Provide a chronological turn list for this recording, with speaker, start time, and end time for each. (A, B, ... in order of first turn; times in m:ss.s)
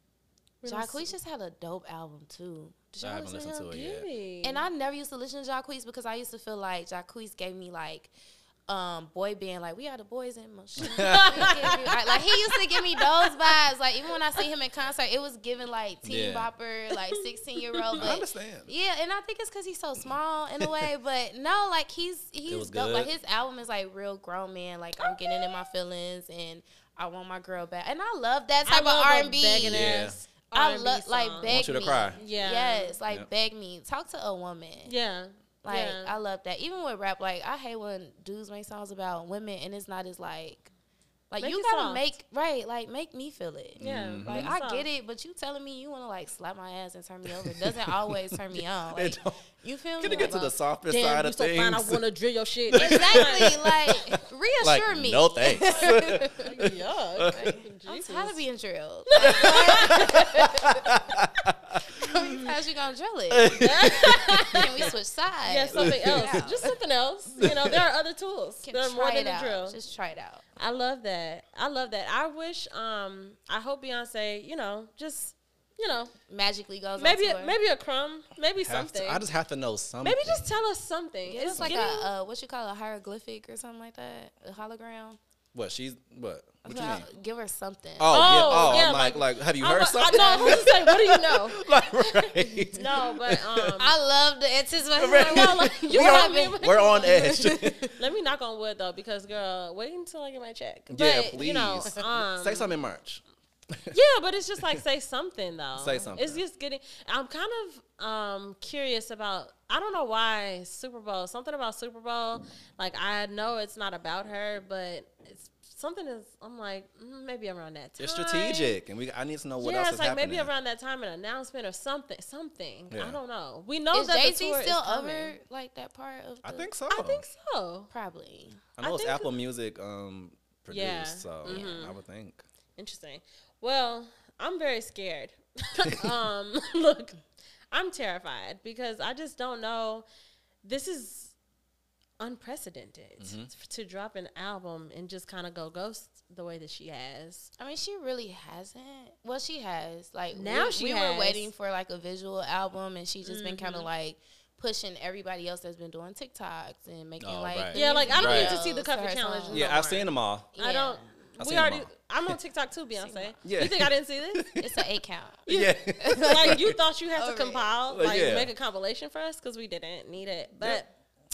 0:00.6-0:01.1 A
0:00.6-0:03.7 B
0:03.0-0:04.1 C
0:03.6-0:04.6 A
0:04.4-0:08.1 B
0:08.7-0:30.0 B
0:10.8-0:11.9 C
0:10.8-0:13.6 A
0:16.0-0:16.5 C
0:17.0-0:18.0 A
0:18.0-0:18.7 C
0:20.6-0:20.9 C
0:22.5-0:23.1 C
0:25.0-0:25.5 A
0:28.6-0:31.5 A
0:29.6-0:30.2 C
0:30.5-0:34.9 B
0:31.4-0:32.2 C
0:32.1-0:33.0 A
0:34.8-0:36.1 A
0:35.6-0:40.7 B
0:41.3-0:50.5 B
0:41.4-0:42.1 A
0:43.8-0:44.5 C
0:43.8-0:44.9 A
0:47.2-0:49.4 C
0:50.0-0:52.0 C
0:50.0-0:53.5 A
0:52.7-0:57.5 C
0:52.7-0:56.5 B
0:55.6-0:58.4 A
0:57.3-1:00.7 B
0:59.1-1:00.6 A
0:59.2-1:02.5 C
1:01.9-1:06.8 B
1:03.3-1:04.9 C
1:03.5-1:04.9 A
1:05.4-1:09.8 A
1:05.7-1:06.6 C
1:07.4-1:07.8 C
1:08.6-1:10.4 B
1:10.6-1:16.1 A
1:16.3-1:17.6 B
1:17.0-1:19.2 A
1:18.6-1:20.5 C
1:20.0-1:22.1 A
1:21.2-1:25.2 B
1:21.5-1:21.9 C
1:25.5-1:27.0 C
1:26.6-1:28.8 B
1:28.0-1:33.8 C
1:28.1-1:33.9 A
1:30.1-1:30.7 B
1:33.8-1:37.9 B
1:34.9-1:37.8 C
1:35.1-1:42.7 A
1:40.9-1:43.9 C
1:43.9-1:58.8 A
1:45.8-1:46.4 C
1:58.0-2:00.5 C
1:59.6-2:05.3 A
2:02.9-2:03.2 C
2:03.9-2:06.7 B
2:06.4-2:07.2 C
2:06.9-2:07.9 A
2:07.9-2:08.7 B
2:08.8-2:12.4 C
2:08.8-2:09.3 A
2:10.7-2:11.9 A
2:11.4-2:11.8 B
2:12.8-2:17.2 A
2:17.7-2:20.0 A
2:20.6-2:21.3 A
2:22.2-2:27.5 A
2:23.2-2:23.5 C
2:27.6-2:39.7 B
2:30.3-2:31.5 A
2:33.2-2:33.9 A
2:37.2-2:38.6 C
2:37.7-2:44.5 A
2:39.5-2:40.5 C
2:40.5-2:41.1 B
2:41.4-2:42.4 C
2:43.0-2:43.4 B
2:43.4-2:44.7 C
2:44.6-2:45.5 B
2:45.4-2:50.9 A
2:45.5-2:46.8 C
2:46.0-2:46.6 B
2:47.2-2:47.7 B
2:47.9-2:48.5 C
2:50.6-2:50.8 C